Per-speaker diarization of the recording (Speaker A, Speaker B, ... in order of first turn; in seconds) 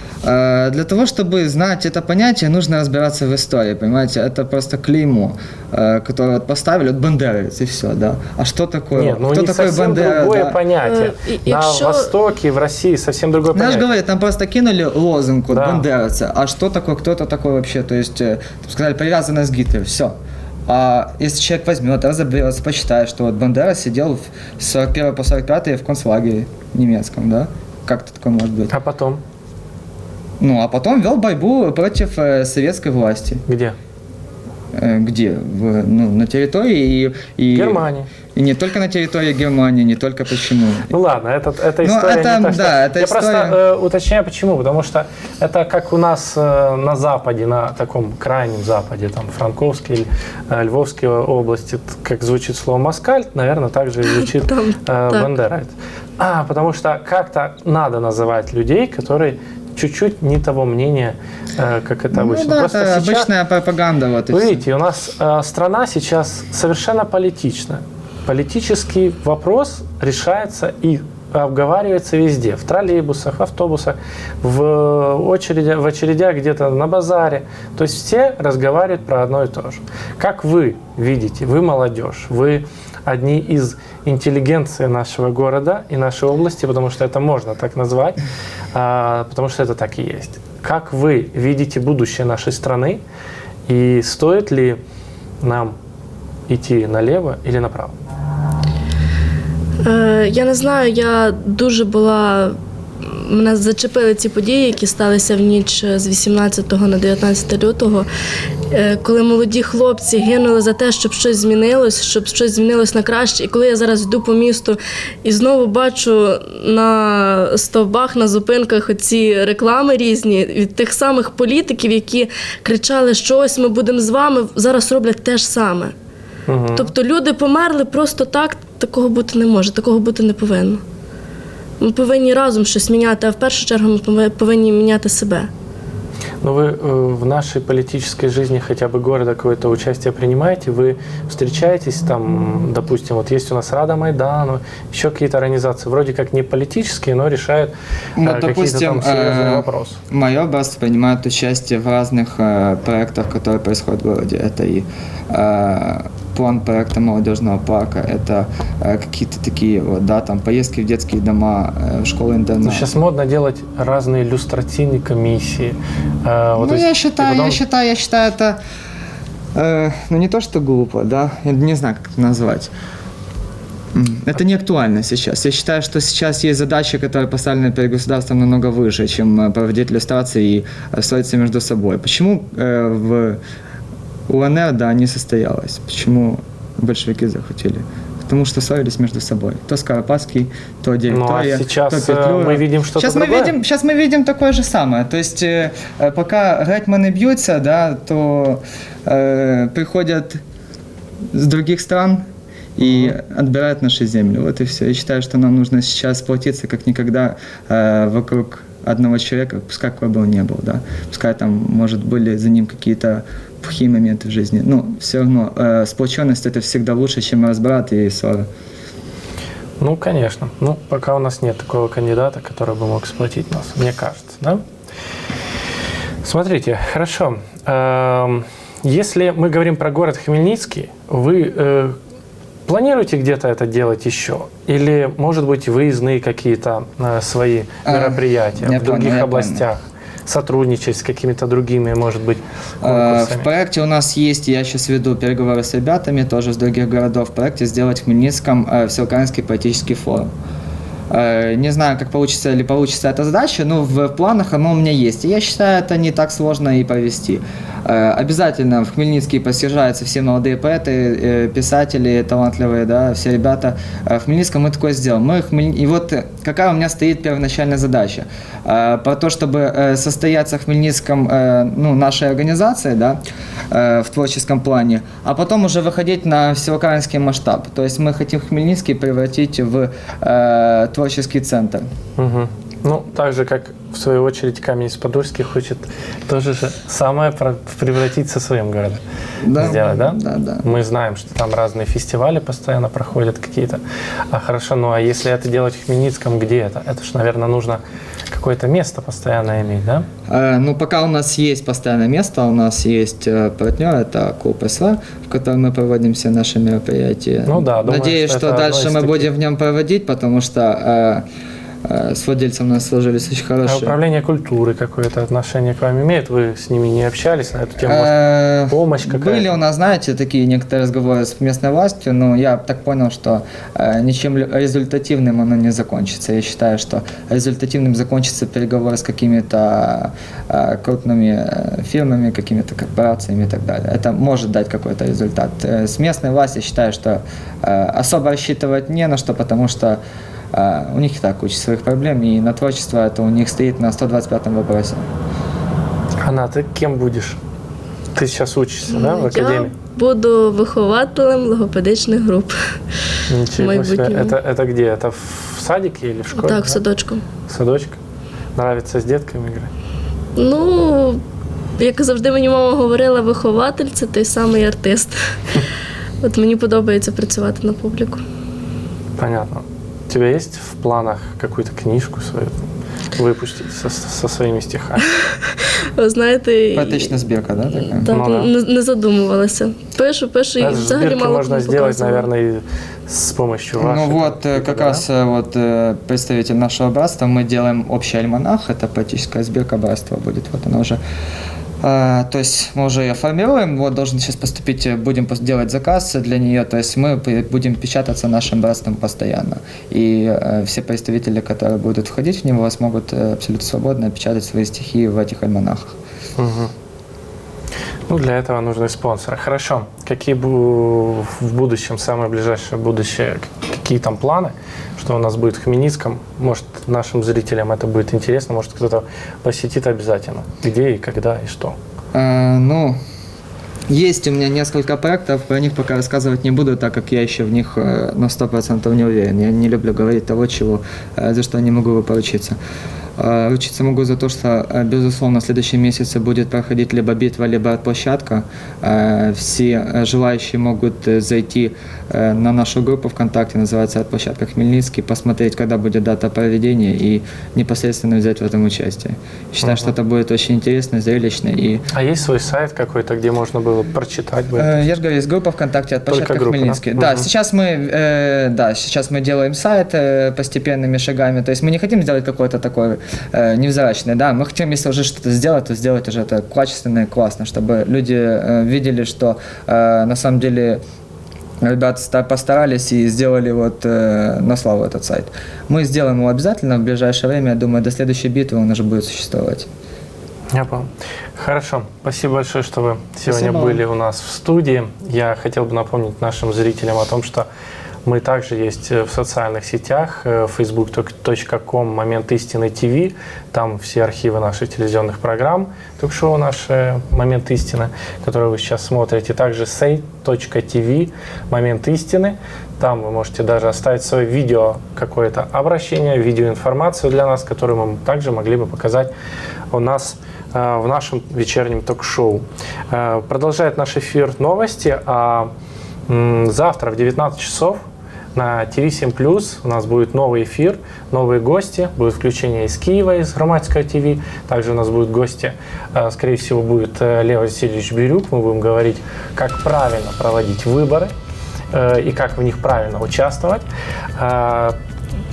Speaker A: 0.2-10.6, 13.5-20.1, 20.7-28.7, 30.4-33.4, 34.8-40.9, 41.8-43.6, 62.1-64.6, 148.2-162.9, 166.6-168.6, 169.6-172.7, 173.9-183.4, 184.3-200.4, 201.3-202.2, 202.8-218.5, 237.8-239.7, 242.8-250.3, 251.1-281.9, 289.4-290.7, 300.3-311.2, 311.9-314.0, 317.9-340.0, 340.5-345.0, 376.8-378.1, 383.8-391.0, 391.8-406.0, 422.1-423.0, 423.9-432.6, 433.2-451.8, 454.5-470.8, 471.6-479.7, 483.3-483.8
Speaker B: 8.9-13.9, 15.5-15.9, 28.7-29.2, 33.5-33.8, 37.5-38.1, 40.9-63.3, 64.3-88.2, 88.7-93.0, 93.7-94.8, 95.4-95.8, 96.5-98.0, 126.5-126.9, 136.4-150.0, 162.6-167.6, 191.1-193.6, 202.8-203.2, 219.8-224.6, 226.2-232.0, 232.7-243.5, 282.2-289.0, 289.6-300.1, 307.5-309.3, 313.7-319.6, 346.2-347.4, 348.1-349.8, 353.3-356.8, 357.5-358.0, 358.6-359.7, 369.2-372.6, 373.2-375.1, 378.1-378.5, 380.6-385.0, 406.4-406.7, 408.1-421.8, 449.6-449.9, 451.9-454.9, 456.1-457.3, 480.5-487.5, 488.1-509.1, 509.7-515.5, 516.1-517.8, 518.4-531.1, 531.7-533.6, 534.2-534.8
Speaker C: 10.8-12.1, 54.0-55.3, 99.8-108.1, 108.7-125.9, 126.7-130.8, 131.8-135.5, 348.9-352.6, 353.6-354.4, 356.3-357.2, 360.4-361.2, 361.8-365.2, 366.2-368.2, 375.3-377.2, 377.8-382.3